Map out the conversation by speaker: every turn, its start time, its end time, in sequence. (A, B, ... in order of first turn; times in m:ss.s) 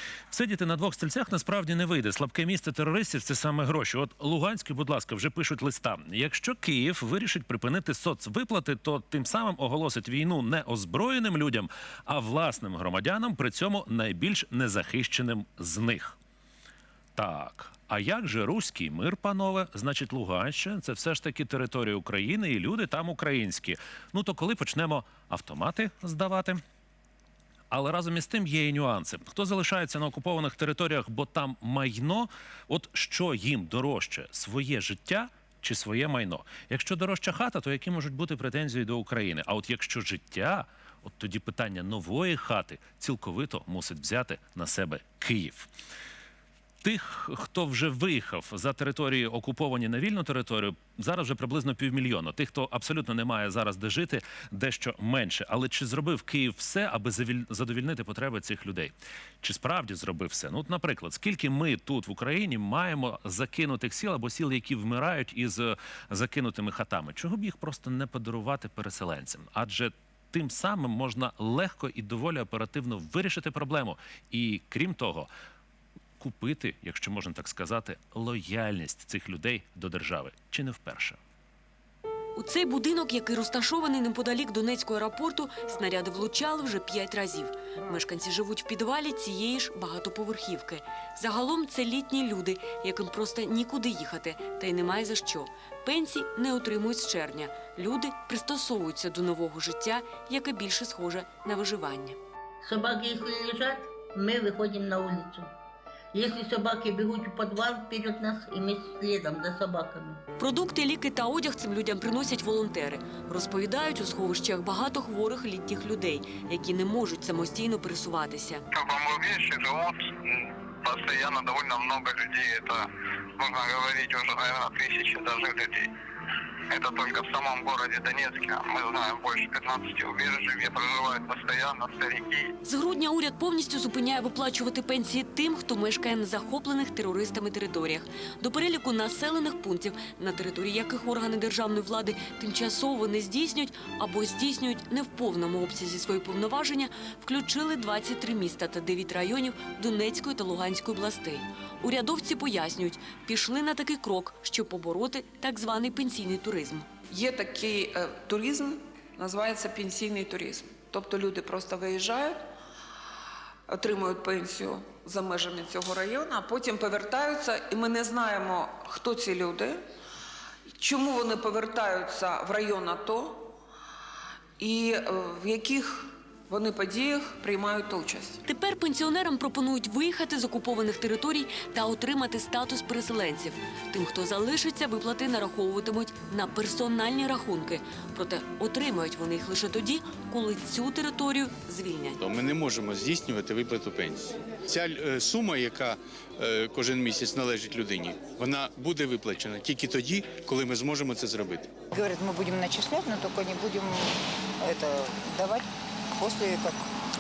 0:00.3-0:16.2 A
0:17.2-0:26.6 A
0:27.7-0:45.7 A
0:46.8-1:15.3 A
1:16.2-1:21.2 A
1:22.4-1:42.2 B
1:42.6-1:45.5 C
1:46.1-1:50.2 C
1:50.4-1:58.6 B
1:58.7-2:05.9 D
2:06.7-2:12.5 D
2:12.6-2:36.9 B
2:37.1-2:42.4 E
2:43.7-2:49.8 E
2:50.8-2:53.5 E
2:54.6-2:58.4 E
2:58.5-3:12.2 B
3:12.2-3:21.7 F
3:21.9-3:25.6 G
3:26.2-3:26.9 G